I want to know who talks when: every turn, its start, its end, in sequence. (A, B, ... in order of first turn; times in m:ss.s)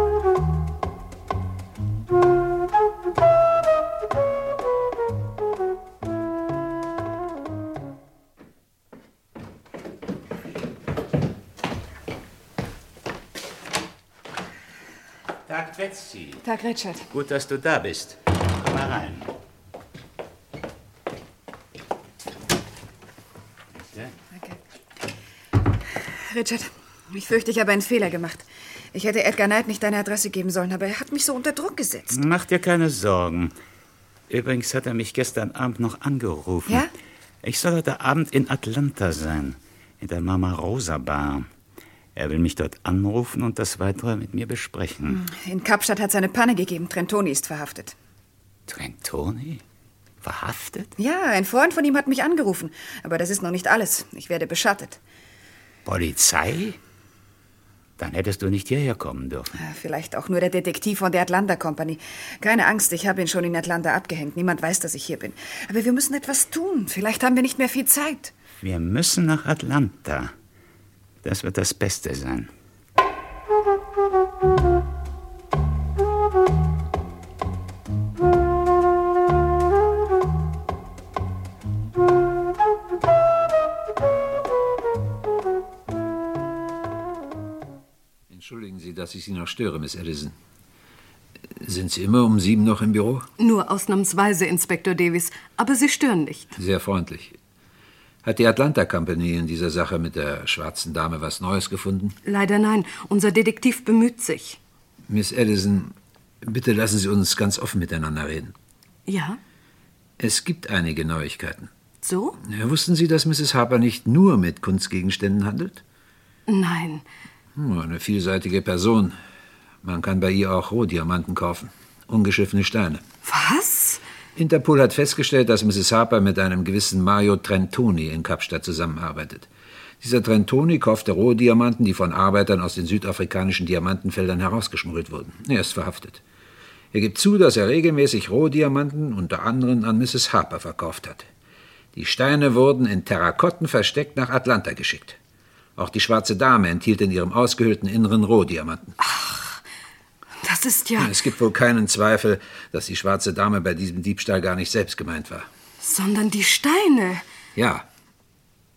0:15.5-0:16.4 A
0:16.4-0:17.1 B
0:17.1-0:19.3 A
0:24.3-0:24.6 B
0:26.0-0:32.2 B
0:32.1-0:33.6 A
0:34.3-0:36.9 A
0:37.4-0:41.5 A
0:42.2-0:45.2 A
0:45.1-0:48.0 B
0:48.7-0:49.6 A
0:50.2-0:50.9 A
0:51.0-0:55.0 B
0:55.8-0:56.8 A
0:58.0-0:59.6 A
0:59.5-1:08.3 B
1:08.6-1:10.4 A
1:11.2-1:12.5 A
1:28.3-1:30.4 C
1:31.5-1:33.3 C
1:33.4-1:36.5 D
1:36.6-1:37.4 C
1:38.2-1:42.2 C
1:42.2-1:44.6 D
1:45.1-1:48.6 C
1:49.1-1:49.4 D
1:50.2-1:51.7 C
1:52.0-1:52.4 D
1:52.4-1:55.8 C
1:56.5-1:57.0 D
1:57.6-1:59.2 C
1:59.8-2:03.0 C
2:03.2-2:04.0 D
2:04.4-2:09.5 C
2:10.0-2:16.2 C
2:16.9-2:21.3 C
2:21.9-2:25.2 C
2:25.8-2:29.0 C
2:29.0-2:29.6 D
2:30.4-2:31.2 D
2:31.0-2:35.5 C
2:35.8-2:37.2 D
2:37.6-2:37.9 C